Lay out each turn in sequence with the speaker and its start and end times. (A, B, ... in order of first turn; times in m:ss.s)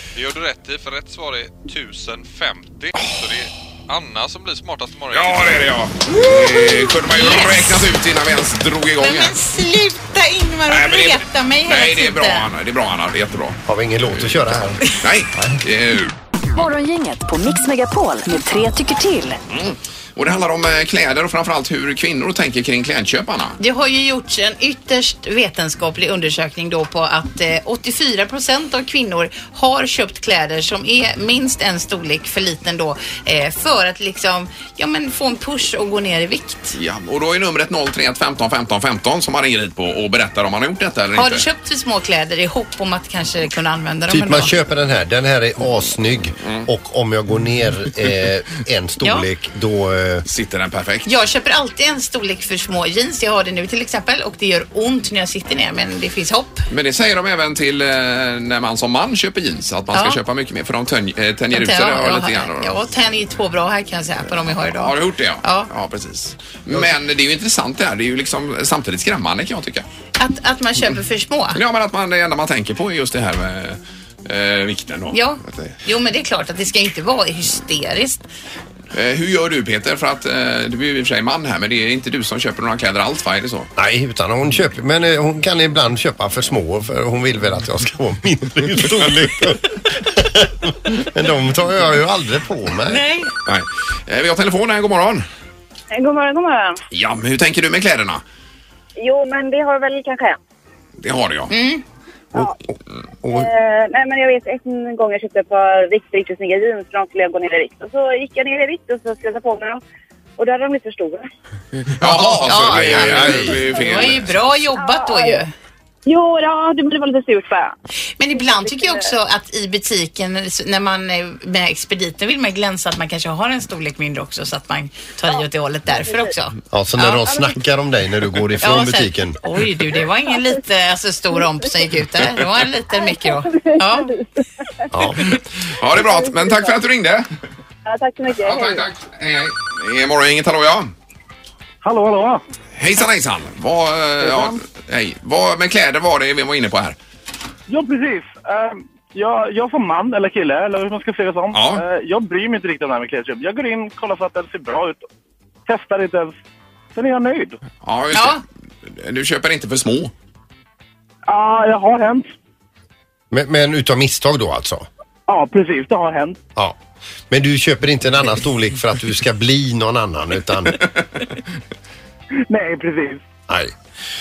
0:00.2-0:05.7 A
0:05.1-0:09.4 B
0:06.1-0:07.8 C
0:09.0-0:12.5 C
0:10.7-0:13.6 B
0:13.7-0:14.8 D
0:15.0-0:16.1 B
0:16.5-0:19.4 E
0:19.5-0:23.6 B
0:23.6-0:36.8 C
0:36.7-0:41.4 B
0:41.2-0:44.5 C
0:44.1-0:50.2 D
0:49.0-0:49.3 C
0:50.3-0:51.1 B
0:51.0-0:56.6 C
0:56.7-1:02.8 B
0:59.9-1:00.2 C
1:01.5-1:05.7 C
1:04.6-1:09.8 B
1:10.2-1:11.6 C
1:11.5-1:15.8 B
1:15.1-1:18.2 C
1:18.9-1:23.7 B
1:23.8-1:33.1 D
1:32.9-1:33.3 C
1:33.5-1:35.3 B
1:35.9-1:36.8 F
1:36.9-1:38.2 B
1:39.0-1:40.4 F
1:41.0-1:41.5 B
1:41.5-1:41.8 C
1:42.3-1:43.5 D
1:43.3-1:49.8 F
1:50.4-1:51.3 F
1:51.9-1:54.4 B
1:52.4-1:55.5 C
1:52.8-1:53.6 D
1:53.7-1:54.0 F
1:54.7-1:55.4 F
1:56.0-1:57.8 F
1:58.2-2:07.4 C
1:58.4-1:59.1 F
2:05.3-2:06.3 F
2:06.7-2:09.4 D
2:08.6-2:14.2 C
2:12.9-2:14.9 F
2:14.9-2:15.3 D
2:15.7-2:17.3 B
2:15.9-2:16.7 F
2:17.8-2:18.8 F
2:18.4-2:20.9 B
2:21.8-2:22.4 G
2:22.8-2:27.0 B
2:24.2-2:24.5 G
2:27.7-2:35.0 G
2:31.5-2:31.8 B
2:35.7-2:36.4 G
2:36.9-2:37.6 G
2:37.8-2:40.1 B
2:38.1-2:38.4 C
2:41.3-2:42.3 G
2:43.3-2:44.9 D
2:45.3-2:46.4 G
2:47.3-2:50.8 D
2:52.5-2:53.2 G
2:53.5-2:53.7 D